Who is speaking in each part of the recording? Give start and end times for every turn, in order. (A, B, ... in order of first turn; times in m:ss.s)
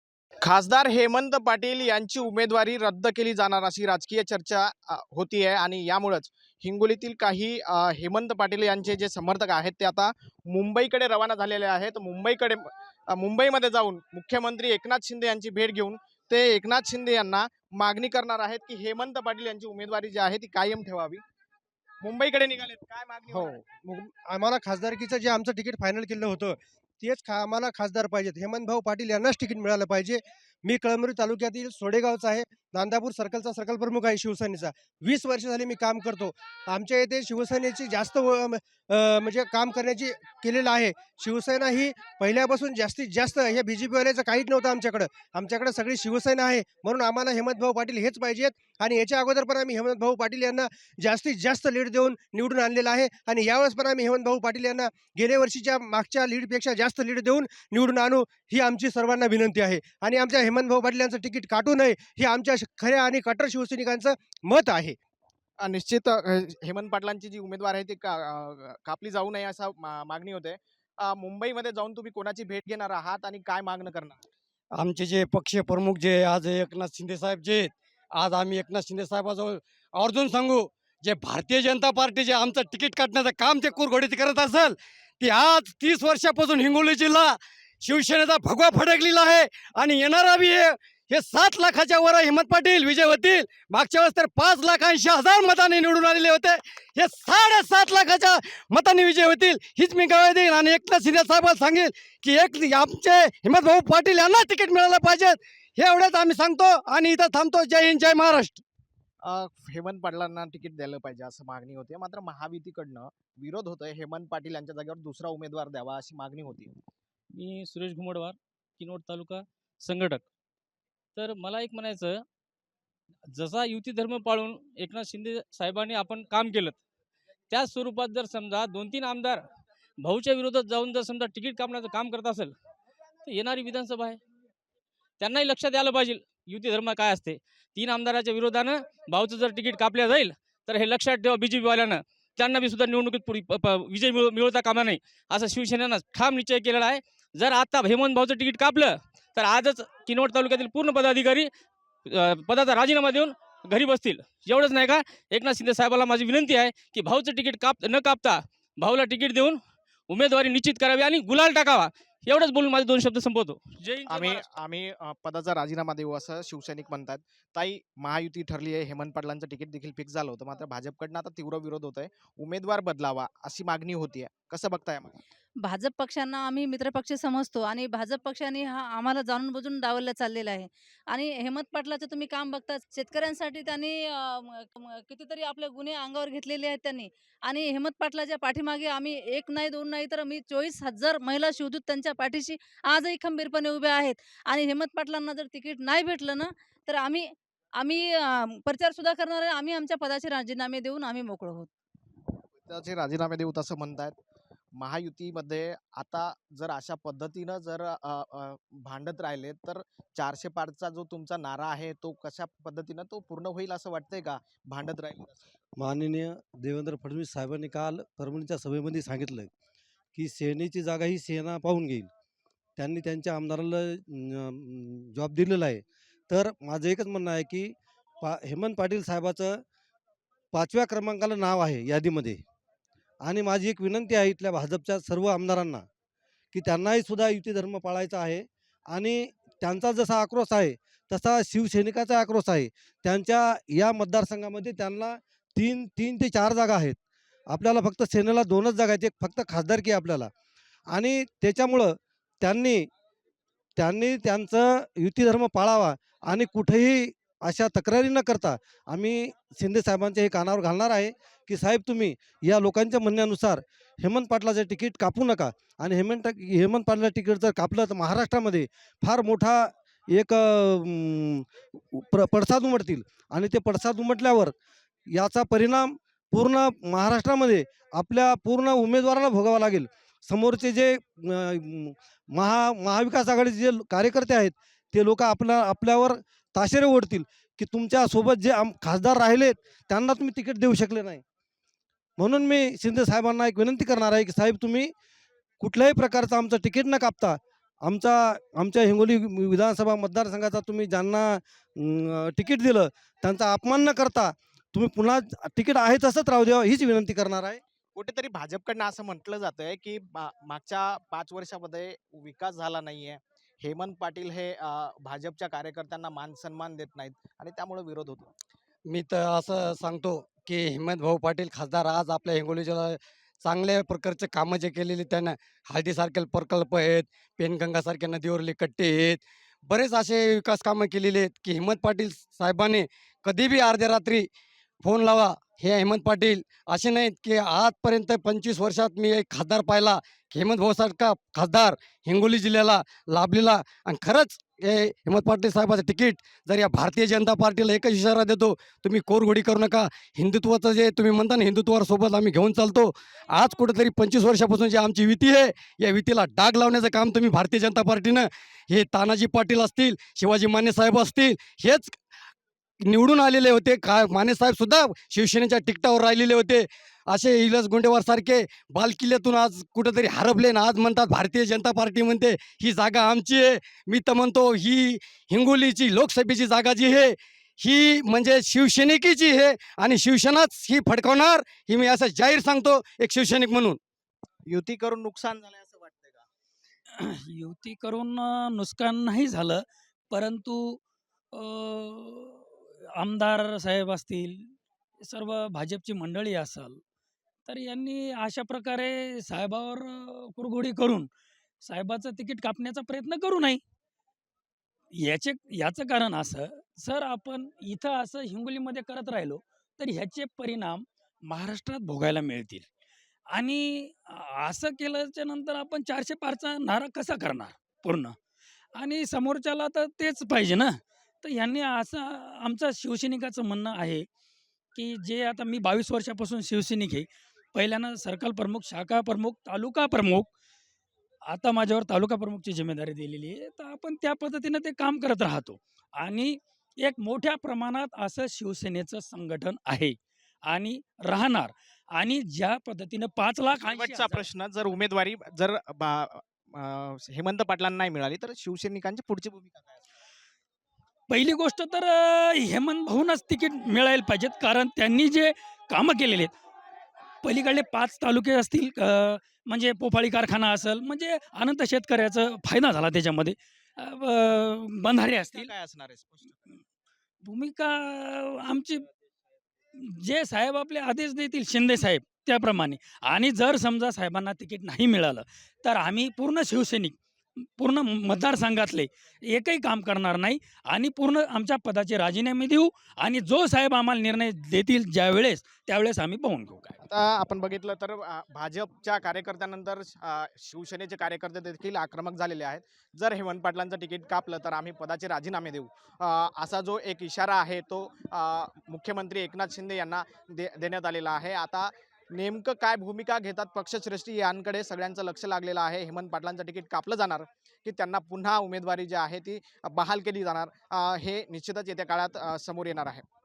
0:00.4-0:21.2 A
0:22.0-0:23.6 A
0:23.3-1:05.0 B
1:05.6-1:14.2 A
1:14.8-1:48.6 C
1:49.2-1:56.7 A
1:57.4-2:00.2 D
2:01.2-2:02.2 D
2:03.3-2:06.8 D
2:07.5-2:09.4 D
2:10.0-2:12.5 D
2:13.3-2:14.2 D
2:15.2-2:31.5 D
2:32.1-2:39.6 D
2:40.1-2:44.5 D
2:44.1-2:55.2 A
2:55.6-3:21.7 E
3:22.6-3:24.2 A
3:24.8-3:35.5 A
3:35.8-3:39.5 F
3:40.1-3:42.1 F
3:42.8-3:49.6 F
3:50.5-3:52.4 F
3:53.2-3:55.8 F
3:56.5-4:07.0 F
4:07.5-4:10.3 F
4:10.9-4:12.9 F
4:13.8-4:34.5 F
4:35.1-4:51.2 F
4:52.2-4:54.9 F
4:55.6-5:07.6 F
5:08.0-5:18.3 A
5:18.9-5:34.3 C
5:34.8-6:02.0 C
6:02.9-6:23.8 C
6:24.5-6:26.2 A
6:27.0-6:30.8 G
6:31.3-6:36.8 G
6:37.5-6:41.1 G
6:41.6-6:43.6 G
6:44.9-6:52.7 G
6:53.3-6:58.2 G
6:58.8-7:04.1 G
7:04.7-7:10.3 G
7:11.3-7:24.2 G
7:23.6-7:29.8 A
7:31.1-7:36.3 G
7:37.2-7:45.5 G
7:45.3-7:46.5 A
7:47.2-7:48.8 G
7:49.8-8:06.8 G
8:06.8-8:33.0 A